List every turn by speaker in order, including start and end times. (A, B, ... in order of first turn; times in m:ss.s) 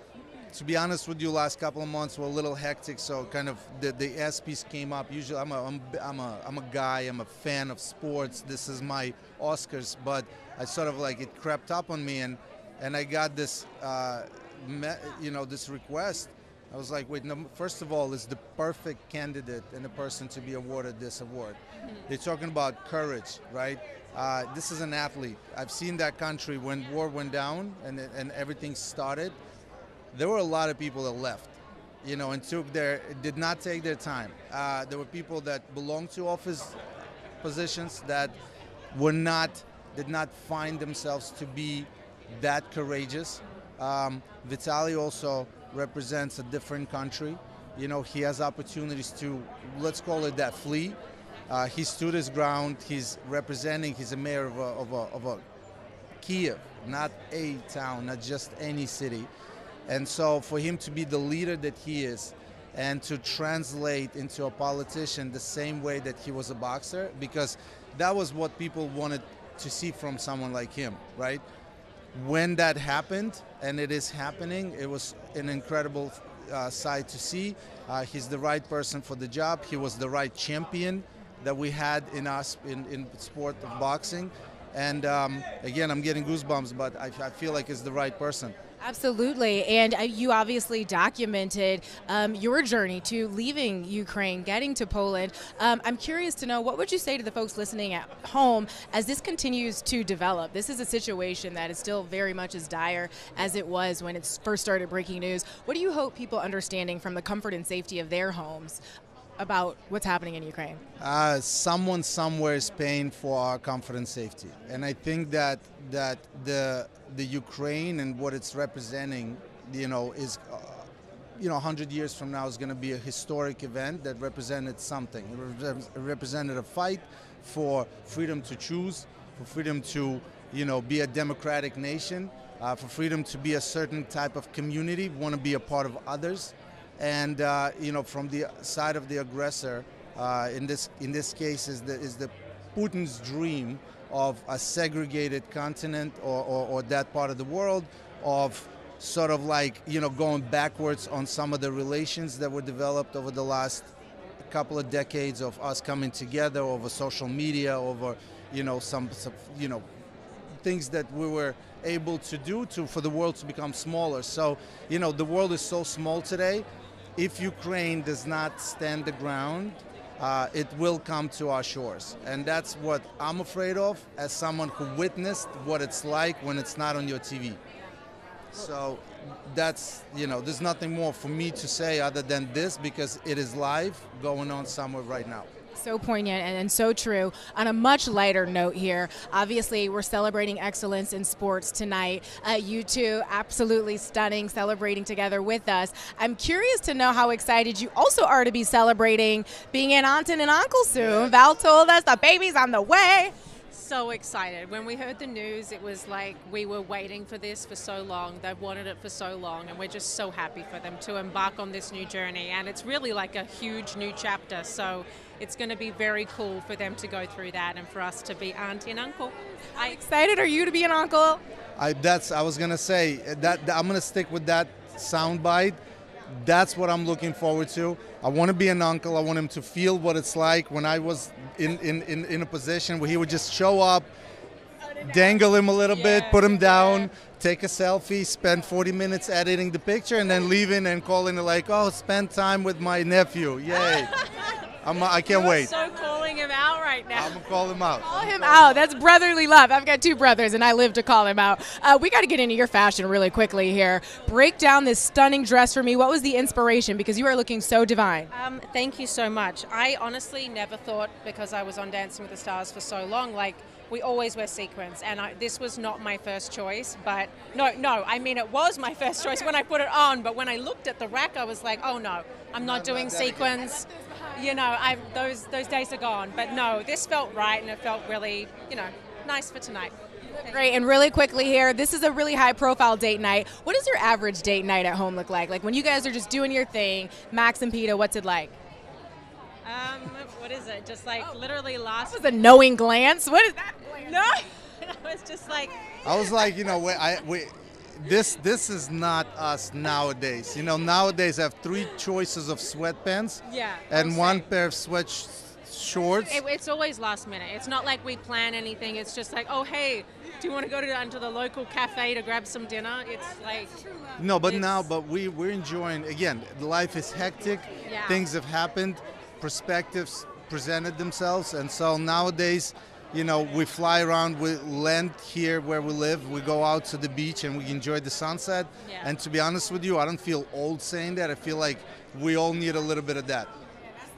0:00.5-0:29.4 A
0:30.1-0:36.9 A
0:37.4-0:38.4 A
0:38.9-0:51.0 A
0:51.5-0:55.4 A
0:56.2-0:59.3 A
0:59.9-1:11.4 A
1:12.1-1:28.5 A
1:28.8-1:48.8 B
1:49.4-1:50.8 B
1:51.0-2:33.9 A
2:34.4-2:39.8 A
2:40.6-2:57.6 A
2:58.5-3:05.5 A
3:05.7-3:23.3 B
3:21.0-3:21.3 A
3:23.7-3:40.0 C
3:39.7-3:41.4 B
3:41.8-3:45.8 A
3:46.3-3:54.1 A
3:55.0-4:04.1 A
3:55.9-3:57.1 C
4:03.7-4:07.4 C
4:04.8-4:05.7 A
4:07.1-4:08.6 A
4:08.0-4:18.3 B
4:18.3-4:40.7 C
4:32.6-4:33.6 A
4:40.4-4:48.6 B
4:49.6-4:52.3 C
4:52.0-4:54.1 B
4:53.9-4:56.0 C
4:56.0-5:06.4 A
5:03.4-5:04.5 C
5:06.3-5:13.8 C
5:14.2-5:33.5 A
5:14.4-5:14.9 C
5:17.8-5:18.3 C
5:28.8-5:29.1 C